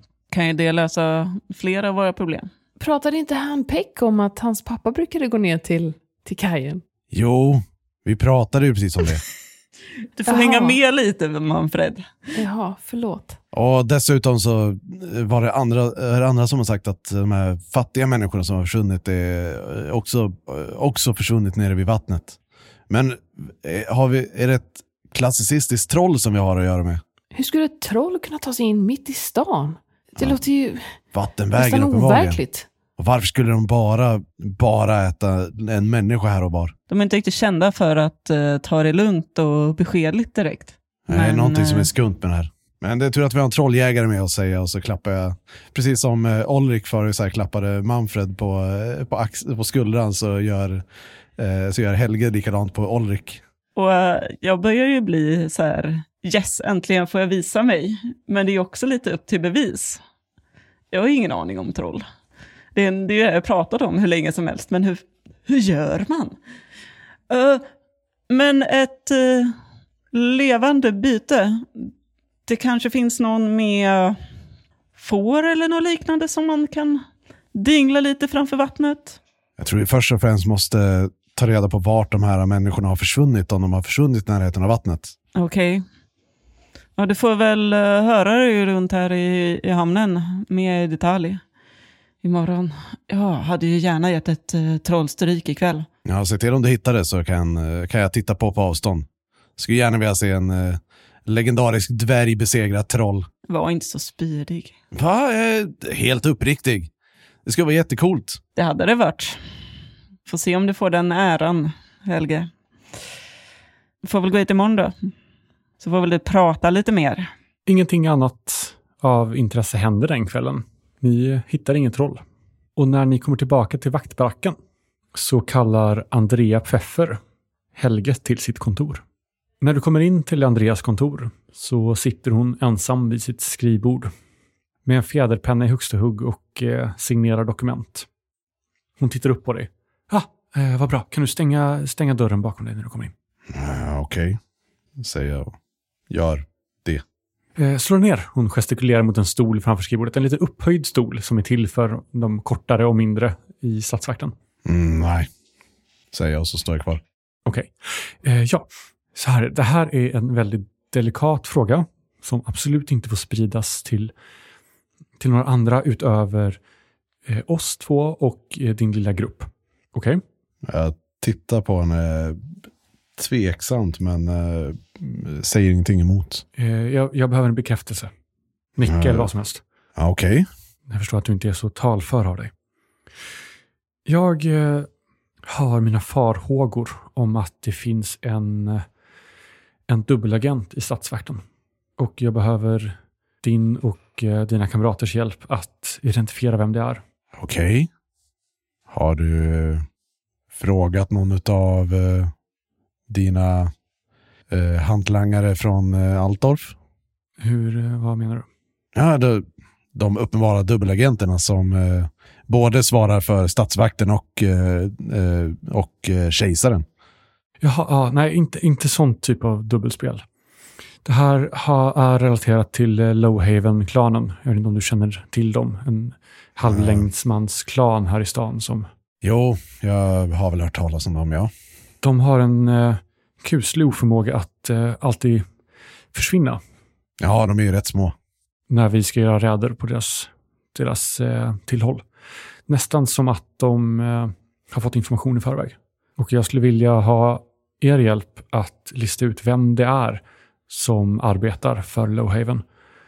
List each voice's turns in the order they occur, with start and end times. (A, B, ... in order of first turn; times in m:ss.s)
0:00.3-0:02.5 A
0:02.8-0:06.8 B
0:07.1-0:09.2 C
0:10.1-0:12.0 A
0:10.3-0:10.8 B
0:12.3-0:13.4 B
0:13.5-0:22.4 C
0:22.9-0:27.0 C
0:27.3-0:30.8 B
0:31.1-0:32.4 C
0:31.6-0:32.7 B
0:33.0-0:36.7 C
0:36.9-0:41.9 A
0:41.1-0:50.8 C
0:51.4-0:53.4 C
0:53.8-1:00.0 A
1:00.9-1:02.0 A
1:02.7-1:06.4 A
1:07.3-1:07.6 A
1:08.3-1:09.6 A
1:10.1-1:11.9 A
1:12.5-1:14.2 A
1:15.0-1:19.2 A
1:19.6-1:25.1 C
1:25.3-1:25.8 A
1:27.0-1:31.4 A
1:32.2-1:35.9 A
1:36.0-1:39.0 C
1:39.6-1:43.3 C
1:43.5-1:44.8 A
1:44.9-1:46.9 C
1:47.4-1:48.4 C
1:48.6-1:49.4 A
1:50.2-1:52.5 A
1:54.0-1:54.9 A
1:55.8-1:57.3 A
1:57.7-2:02.2 D
2:02.8-2:04.6 D
2:05.1-2:07.2 D
2:07.8-2:09.0 D
2:09.6-2:14.1 D
2:14.8-2:18.1 D
2:19.0-2:23.1 D
2:23.5-2:24.4 C
2:25.0-2:25.5 C
2:26.1-2:27.0 C
2:27.6-2:34.3 D
2:34.6-2:35.3 C
2:36.1-2:37.0 C
2:37.4-2:44.1 D
2:45.2-2:46.6 D
2:47.2-2:50.2 D
2:50.6-2:52.5 C
2:53.2-2:56.4 C
2:56.6-2:58.1 D
2:58.7-2:59.6 D
2:58.8-2:59.3 C
3:00.0-3:00.5 C
3:00.9-3:02.5 D
3:04.0-3:04.9 D
3:05.4-3:08.8 D
3:09.9-3:11.4 D
3:12.0-3:17.0 D
3:17.4-3:17.9 C
3:18.9-3:19.8 C
3:20.5-3:22.3 C
3:23.1-3:23.7 C
3:24.5-3:26.8 C
3:27.4-3:28.4 D
3:28.9-3:36.8 C
3:37.6-3:40.2 D
3:41.0-3:48.9 D
3:46.6-3:47.0 C
3:49.2-3:51.5 C
3:52.0-3:55.4 D
3:56.1-3:56.6 D
3:57.2-3:58.1 C
3:58.7-4:02.0 D
4:02.7-4:12.6 D